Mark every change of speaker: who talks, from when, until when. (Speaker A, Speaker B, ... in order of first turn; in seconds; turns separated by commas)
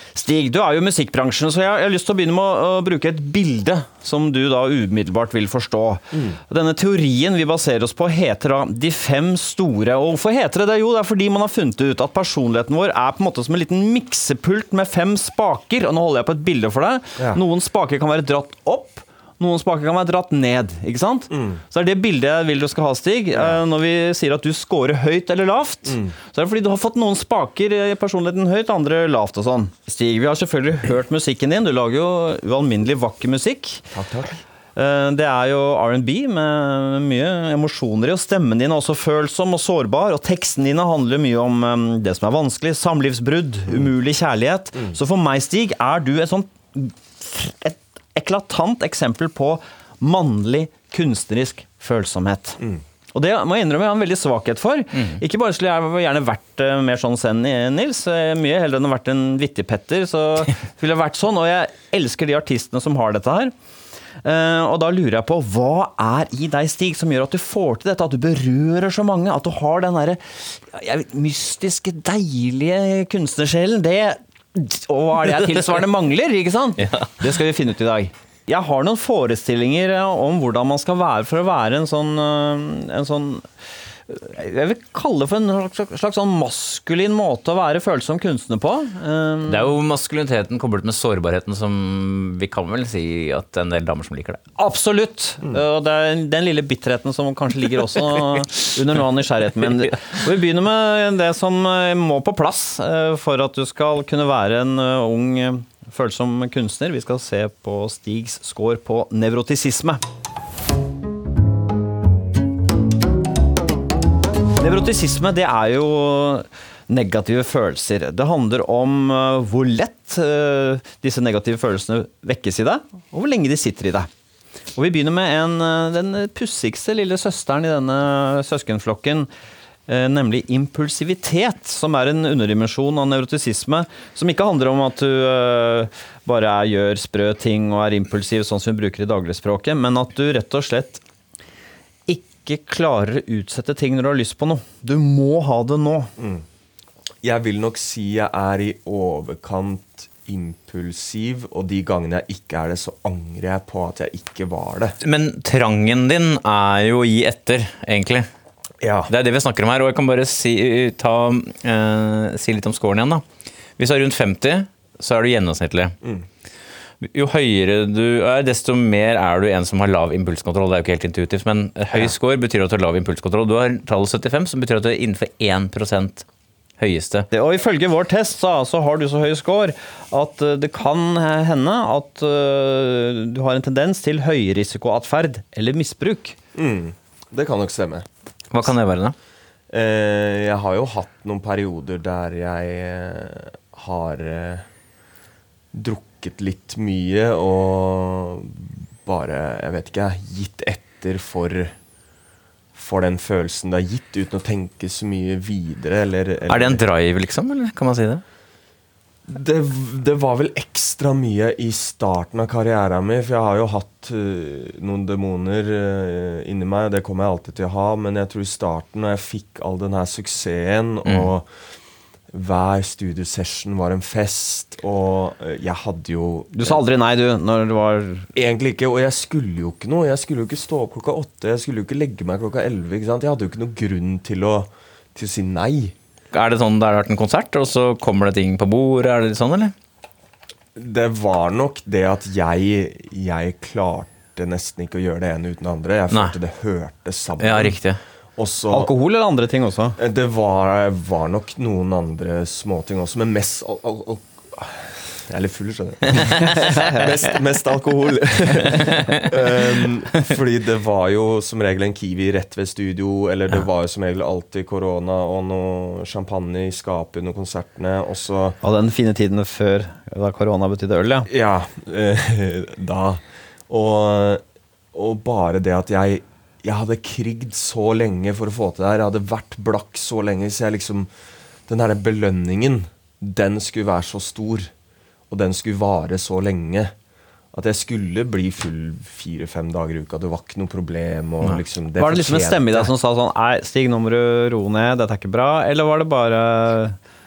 Speaker A: 0.1-33.9, Speaker B: 21.3-21.6, Speaker B: 25.9-26.1, Speaker B: 33.9-34.4, Speaker A: 34.8-52.6, Speaker A: 53.1-63.5, Speaker A: 64.2-83.5, Speaker C: 76.8-77.1, Speaker A: 84.1-89.7, Speaker C: 89.5-94.4, Speaker A: 94.6-110.0, Speaker A: 114.5-124.1, Speaker A: 124.8-129.3, Speaker A: 129.9-141.0, Speaker A: 142.1-146.1, Speaker B: 146.2-146.4, Speaker B: 147.2-155.0, Speaker C: 155.0-158.3, Speaker B: 158.8-159.1, Speaker C: 159.1-163.2, Speaker C: 163.8-165.9, Speaker C: 167.0-176.2, Speaker C: 176.8-177.3, Speaker A: 177.3-186.3, Speaker B: 186.5-188.1, Speaker C: 188.5-189.1, Speaker B: 189.7-194.7, Speaker B: 195.7-201.7, Speaker B: 202.7-206.8, Speaker C: 206.5-208.2, Speaker B: 209.2-221.5, Speaker B: 222.3-226.8, Speaker A: 226.5-228.3, Speaker B: 228.3-235.9, Speaker C: 236.3-239.7, Speaker B: 240.7-247.8, Speaker C: 247.4-248.0, Speaker B: 248.4-248.9, Speaker A: 248.7-250.0, Speaker B: 250.0-268.6, Speaker C: 256.1-256.4, Speaker A: 256.3-257.0, Speaker C: 258.6-259.3, Speaker A: 268.6-271.3, Speaker B: 271.3-281.1, Speaker B: 281.7-284.7, Speaker B: 285.3-286.9, Speaker B: 287.5-292.9, Speaker A: 292.0-297.0